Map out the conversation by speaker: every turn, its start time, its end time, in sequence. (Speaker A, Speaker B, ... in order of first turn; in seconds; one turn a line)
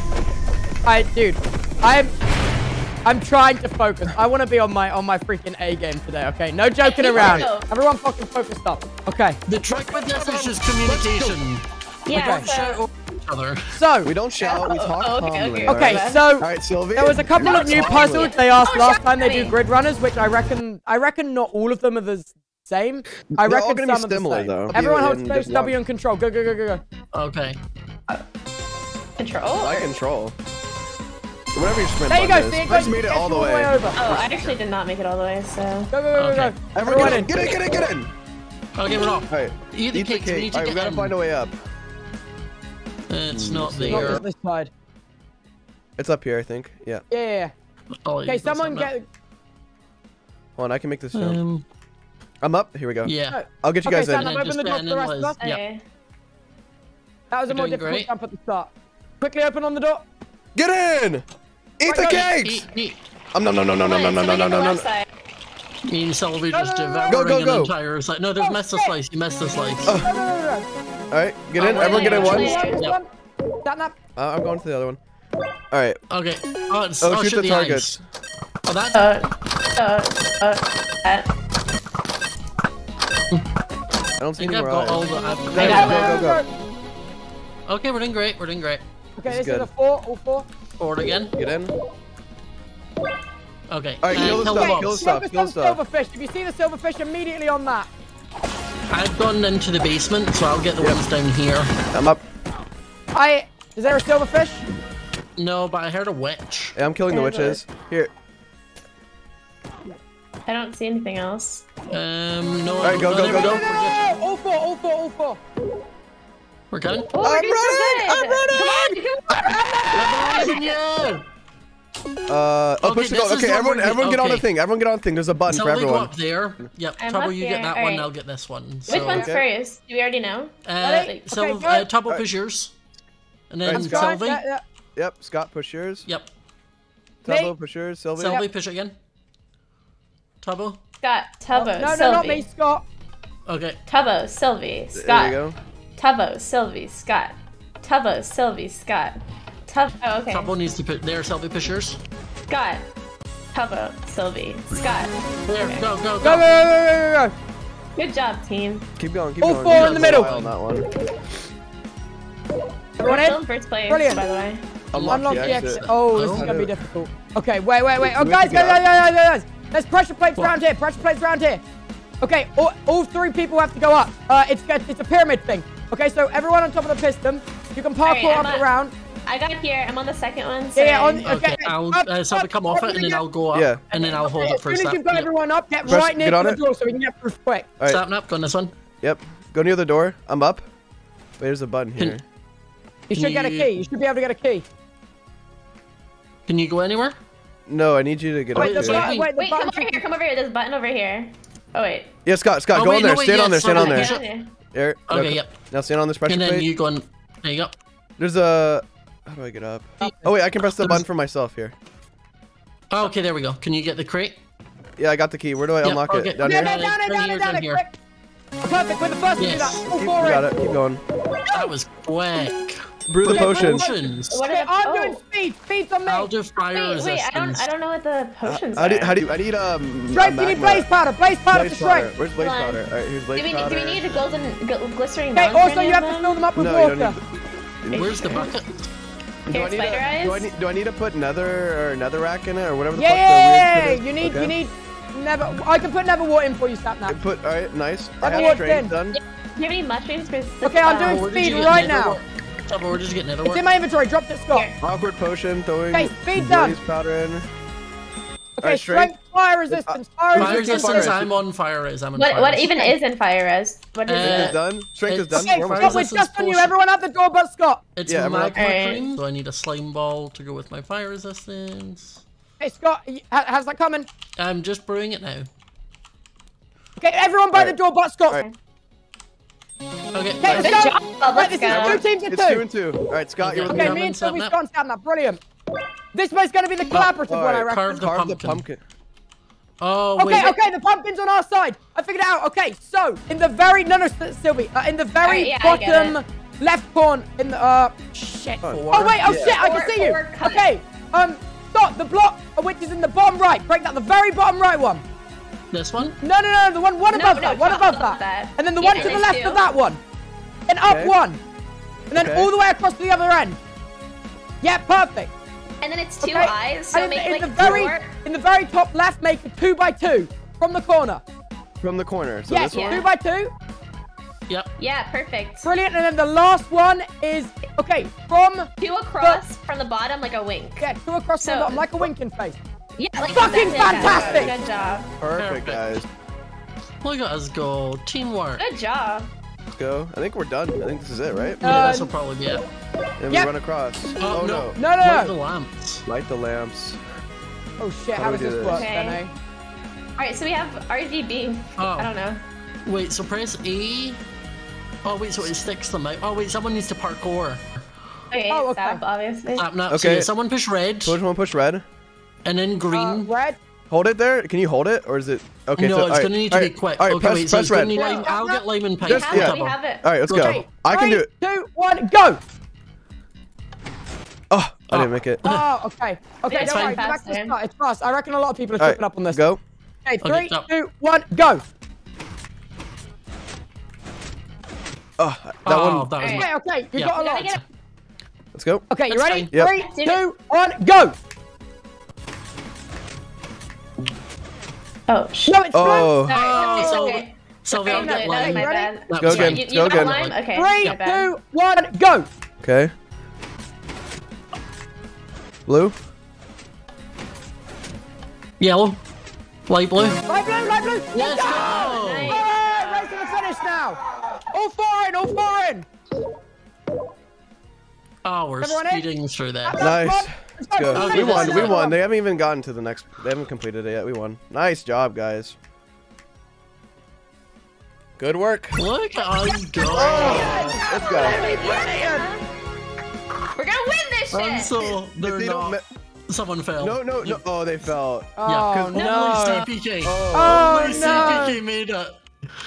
Speaker A: 0.9-2.1
Speaker A: 3.0-9.4
Speaker B: 6.8-7.7
Speaker C: 7.1-7.5
Speaker D: 9.5-13.8
Speaker C: 10.9-11.3
Speaker B: 12.1-12.8
Speaker A: 12.1-12.5
Speaker A: 13.7-14.1
Speaker C: 14.0-18.3
Speaker B: 14.4-16.2
Speaker A: 15.7-26.8
Speaker B: 17.4-19.6
Speaker C: 23.3-25.8
Speaker D: 27.1-27.6
Speaker B: 29.2-29.9
Speaker C: 29.6-30.4
Speaker C: 31.5-34.6
Speaker A: 32.1-34.0
Speaker B: 33.9-35.9
Speaker A: 35.9-37.5
Speaker D: 36.2-36.5
Speaker C: 36.8-38.1
Speaker D: 38.8-41.1
Speaker C: 39.3-41.6
Speaker D: 43.1-44.2
Speaker C: 43.3-44.2
Speaker A: 43.9-44.7
Speaker C: 46.0-47.0
Speaker A: 47.1-47.5
Speaker D: 48.0-48.9
Speaker A: 48.2-49.1
Speaker C: 50.6-51.4
Speaker D: 51.1-51.6
Speaker C: 52.4-54.3
Speaker D: 53.0-53.4
Speaker A: 53.3-55.4
Speaker D: 54.1-55.6
Speaker B: 55.4-55.8
Speaker A: 57.3-60.0
Speaker D: 57.5-58.1
Speaker C: 60.5-61.2
Speaker C: 61.8-62.7
Speaker A: 61.9-62.3
Speaker D: 62.2-63.0
Speaker C: 63.3-64.9
Speaker B: 63.8-65.1
Speaker D: 65.8-70.0
Speaker A: 66.5-67.2
Speaker C: 67.1-67.7
Speaker A: 68.4-68.9
Speaker A: 69.8-70.7
Speaker C: 71.1-72.5
Speaker D: 71.6-73.0
Speaker A: 71.6-73.1
Speaker B: 71.7-72.8
Speaker A: 73.6-74.0
Speaker C: 74.2-75.0
Speaker C: 75.7-76.0
Speaker D: 76.1-78.0
Speaker C: 77.0-78.0
Speaker D: 78.6-79.1
Speaker B: 78.9-81.3
Speaker C: 84.2-86.4
Speaker D: 84.4-86.1
Speaker B: 85.6-86.0
Speaker A: 85.7-86.5
Speaker D: 87.7-88.8
Speaker A: 89.2-90.5
Speaker C: 89.3-89.7
Speaker D: 90.8-91.3
Speaker C: 91.3-91.7
Speaker D: 93.7-95.1
Speaker C: 94.0-95.8
Speaker A: 94.1-97.9
Speaker D: 98.9-101.7
Speaker C: 101.9-102.2
Speaker A: 103.1-104.7
Speaker D: 105.4-106.8
Speaker C: 106.8-108.1
Speaker B: 107.1-107.6
Speaker B: 110.5-111.6
Speaker D: 111.9-114.1
Speaker C: 112.8-113.6
Speaker A: 113.1-115.4
Speaker D: 116.7-117.1
Speaker B: 117.1-120.6
Speaker C: 117.2-119.7
Speaker D: 119.9-121.2
Speaker C: 122.3-126.1
Speaker D: 122.8-124.5
Speaker D: 125.5-129.3
Speaker B: 127.0-128.1
Speaker C: 128.9-129.4
Speaker B: 128.9-131.2
Speaker D: 130.7-132.7
Speaker A: 130.8-131.9
Speaker D: 133.5-134.4
Speaker C: 133.7-134.1
Speaker A: 133.7-134.6
Speaker C: 135.0-136.1
Speaker C: 137.2-138.4
Speaker A: 137.2-137.5
Speaker D: 138.2-138.9
Speaker D: 140.4-140.8
Speaker B: 141.0-142.4
Speaker A: 141.5-142.8
Speaker D: 143.4-143.8
Speaker B: 143.8-145.4
Speaker C: 144.9-145.6
Speaker B: 145.9-150.5
Speaker D: 150.3-152.0
Speaker B: 152.5-152.8
Speaker B: 153.5-155.9
Speaker D: 155.5-156.5
Speaker A: 156.2-157.3
Speaker B: 157.9-158.8
Speaker C: 159.0-160.9
Speaker A: 159.4-160.3
Speaker D: 159.7-160.6
Speaker A: 163.0-164.2
Speaker B: 163.0-164.6
Speaker D: 164.9-166.6
Speaker C: 164.9-166.7
Speaker A: 165.1-171.6
Speaker C: 168.1-168.8
Speaker A: 172.2-178.9
Speaker B: 178.0-178.7
Speaker B: 179.2-181.2
Speaker A: 180.8-183.2
Speaker D: 181.2-185.3
Speaker C: 183.5-183.8
Speaker A: 183.9-187.7
Speaker C: 185.8-186.6
Speaker D: 187.8-188.7
Speaker C: 189.0-190.6
Speaker C: 191.4-192.2
Speaker A: 193.1-194.7
Speaker D: 193.1-193.8
Speaker D: 196.4-197.2
Speaker C: 197.7-199.1
Speaker A: 198.5-200.0
Speaker D: 198.6-199.3
Speaker B: 199.3-202.1
Speaker C: 202.2-204.1
Speaker D: 202.7-204.2
Speaker B: 203.7-204.5
Speaker C: 204.7-206.7
Speaker D: 205.1-205.5
Speaker D: 206.3-207.8
Speaker C: 208.2-211.8
Speaker D: 210.0-211.0
Speaker D: 212.9-214.4
Speaker C: 215.0-216.8
Speaker D: 215.8-217.8
Speaker A: 216.4-217.9
Speaker A: 218.6-220.5
Speaker D: 219.3-219.9
Speaker C: 219.9-221.0
Speaker D: 221.5-224.4
Speaker C: 223.1-223.9
Speaker A: 223.2-226.3
Speaker B: 224.3-225.2
Speaker D: 226.1-227.7
Speaker B: 226.7-229.2
Speaker C: 228.4-230.9
Speaker A: 230.1-232.1
Speaker C: 231.5-234.2
Speaker B: 232.4-232.8
Speaker B: 233.3-236.3
Speaker A: 235.3-237.2
Speaker C: 236.6-237.2
Speaker C: 237.8-238.3
Speaker B: 237.9-238.5
Speaker D: 237.9-238.9
Speaker C: 239.5-244.5
Speaker B: 239.5-240.5
Speaker A: 242.9-247.2
Speaker C: 247.1-249.2
Speaker A: 248.2-248.9
Speaker B: 248.3-248.6
Speaker B: 249.2-251.2
Speaker A: 250.6-252.2
Speaker D: 251.0-253.7
Speaker A: 253.5-254.7
Speaker C: 254.8-257.5
Speaker A: 255.9-256.8
Speaker A: 258.6-261.1
Speaker C: 258.6-259.1
Speaker C: 259.7-261.3
Speaker D: 260.4-262.9
Speaker B: 262.2-264.6
Speaker D: 264.1-266.7
Speaker C: 264.2-266.0
Speaker A: 265.3-267.9
Speaker D: 268.0-272.2
Speaker C: 268.1-268.6
Speaker B: 268.5-269.0
Speaker A: 272.6-274.1
Speaker D: 274.4-275.5
Speaker A: 277.0-278.4
Speaker D: 280.1-280.8
Speaker A: 280.4-282.6
Speaker B: 280.6-282.0
Speaker C: 281.7-284.0
Speaker D: 283.4-284.5
Speaker A: 283.7-285.4
Speaker A: 286.1-288.0
Speaker D: 286.9-288.7
Speaker C: 287.3-288.8
Speaker D: 289.8-290.6
Speaker A: 290.2-305.0
Speaker B: 295.2-296.2
Speaker C: 298.6-299.6
Speaker D: 298.6-299.5
Speaker B: 299.5-300.7
Speaker D: 305.7-306.2
Speaker A: 306.2-310.0
Speaker B: 307.1-309.7
Speaker A: 310.7-311.4
Speaker C: 310.9-311.1
Speaker A: 312.1-313.6
Speaker C: 312.1-312.5
Speaker A: 314.6-315.3
Speaker B: 315.8-318.1
Speaker A: 316.2-321.2
Speaker C: 321.8-323.1
Speaker A: 322.5-323.5
Speaker B: 322.7-323.1
Speaker B: 324.8-325.7
Speaker A: 325.6-328.7
Speaker B: 328.8-331.9
Speaker A: 330.8-332.6
Speaker B: 333.0-335.1
Speaker A: 333.3-334.5
Speaker C: 333.9-334.6
Speaker C: 335.2-336.1
Speaker D: 335.4-336.0
Speaker D: 337.0-338.6
Speaker B: 338.6-339.3
Speaker C: 339.7-341.9
Speaker A: 341.6-342.1
Speaker D: 341.6-342.7
Speaker C: 343.2-344.8
Speaker D: 344.2-346.0
Speaker A: 344.8-345.3
Speaker C: 346.1-347.0
Speaker A: 347.8-349.3
Speaker C: 348.2-348.9
Speaker B: 348.7-349.2
Speaker B: 350.2-352.4
Speaker D: 351.8-352.1
Speaker D: 352.9-354.2
Speaker D: 355.0-357.6
Speaker B: 358.3-359.7
Speaker A: 358.5-359.0
Speaker D: 359.6-361.2
Speaker C: 359.9-360.3
Speaker C: 361.1-361.8
Speaker D: 362.4-363.3
Speaker A: 362.9-363.6
Speaker C: 363.9-368.1
Speaker D: 365.8-369.8
Speaker A: 367.9-368.6
Speaker B: 369.0-370.1
Speaker C: 369.1-371.3
Speaker D: 370.3-370.6
Speaker A: 370.4-372.4
Speaker C: 374.5-375.4
Speaker D: 374.9-375.6
Speaker A: 375.4-379.4
Speaker B: 376.5-377.6
Speaker D: 376.5-377.0
Speaker C: 378.8-379.6
Speaker A: 380.1-381.6
Speaker D: 380.2-380.7
Speaker C: 385.2-386.1
Speaker D: 385.6-387.6
Speaker B: 386.2-386.5
Speaker A: 386.3-387.5
Speaker B: 387.1-387.6
Speaker C: 388.6-388.9
Speaker A: 388.9-391.1
Speaker D: 389.1-389.5
Speaker C: 389.5-389.8
Speaker B: 389.8-390.2
Speaker B: 395.1-395.6
Speaker A: 395.5-397.2
Speaker C: 395.7-396.4
Speaker B: 396.2-401.3
Speaker D: 396.3-401.0
Speaker A: 397.8-398.9
Speaker C: 399.2-400.2
Speaker A: 400.5-402.3
Speaker C: 402.6-402.9
Speaker C: 405.7-406.0
Speaker D: 408.6-409.0
Speaker D: 409.7-410.2
Speaker A: 410.3-415.9
Speaker D: 411.1-412.4
Speaker B: 411.5-413.1
Speaker D: 418.2-419.9
Speaker A: 418.6-419.1
Speaker A: 419.6-422.0
Speaker C: 419.8-425.6
Speaker D: 420.9-421.8
Speaker C: 428.2-428.8
Speaker D: 428.8-430.8
Speaker C: 429.9-431.4
Speaker A: 430.1-432.3
Speaker B: 431.0-432.4
Speaker B: 433.6-434.7
Speaker D: 434.3-437.4
Speaker C: 434.8-435.8
Speaker C: 436.8-439.1
Speaker A: 438.4-439.7
Speaker D: 438.4-442.2
Speaker C: 440.0-441.5
Speaker A: 440.3-441.6